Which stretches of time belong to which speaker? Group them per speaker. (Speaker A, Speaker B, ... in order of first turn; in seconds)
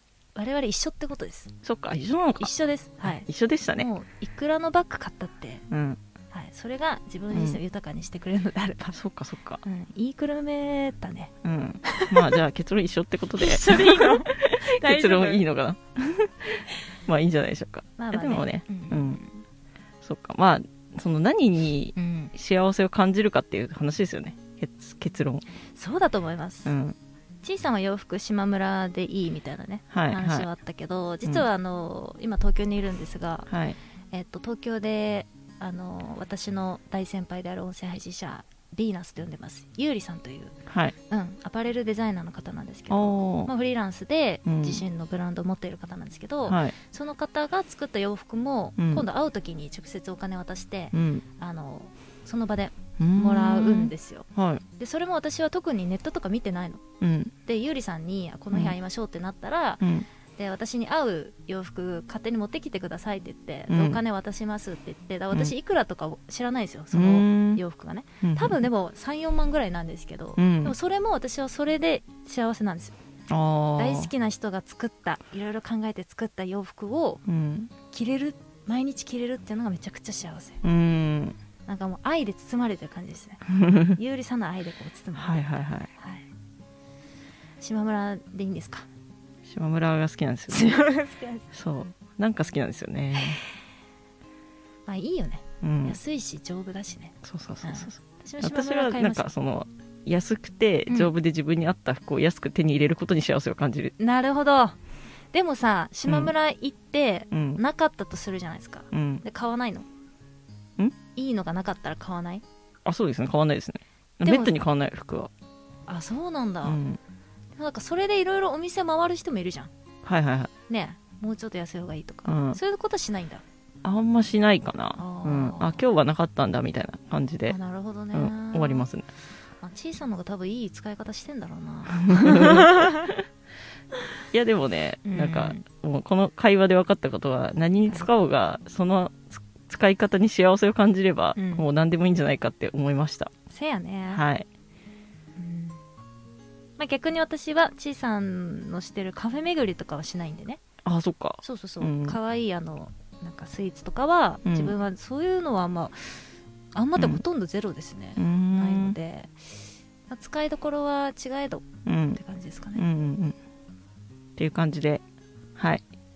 Speaker A: 0.3-1.5, 2.4-5.6, 6.3-8.9, 9.6-11.3, 11.8-12.3, 13.4-15.4, 18.0-19.4, 21.9-22.3, 25.7-26.7, 27.4-33.5, 34.1-40.6, 41.1-56.8, 57.4-59.8, 60.4-72.9, 73.8-77.2, 77.9-80.6, 81.7-86.2, 87.6-88.8, 90.5-91.5, 94.8-99.3, 100.9-101.1, 104.0-104.8, 105.3-109.8, 111.1-112.4, 114.2-114.5, 115.9-116.8, 117.5-119.7, 120.7-123.4, 125.0-125.8, 127.5-128.9, 129.6-132.9, 135.0-135.6, 141.3-141.7, 143.5-144.2, 145.3-145.8, 146.8-150.6, 151.4-161.6, 162.1-162.8
Speaker B: 1.6-2.5, 3.0-3.9, 5.7-6.0, 7.3-7.6, 8.9-9.6, 11.4-19.2, 20.0-25.4, 26.6-26.9, 29.9-30.5, 33.5-33.8, 40.7-40.9, 42.9-43.5, 44.5-44.8, 46.5-46.7, 48.8-49.0, 50.9-51.2, 53.0-54.6, 57.0-57.3, 59.8-60.1, 63.7-64.0, 66.9-67.6, 68.2-68.6, 70.4-70.7, 73.3-74.1, 77.3-77.7, 80.6-81.3, 83.5-84.0, 85.2-85.9, 89.5-90.8, 91.5-93.4, 95.6-96.0, 97.2-103.9, 106.1-106.3, 107.3-107.6, 108.9-109.2, 112.8-115.3, 116.6-117.0, 120.0-120.5, 122.3-122.6, 123.8-127.6, 128.1-129.1, 131.9-133.2, 134.3-143.3, 144.1-144.4, 150.8-152.2, 154.4-154.7, 157.0-157.2, 158.2-158.9, 161.8-162.2, 162.8-163.3, 164.4-165.0, 165.6-165.8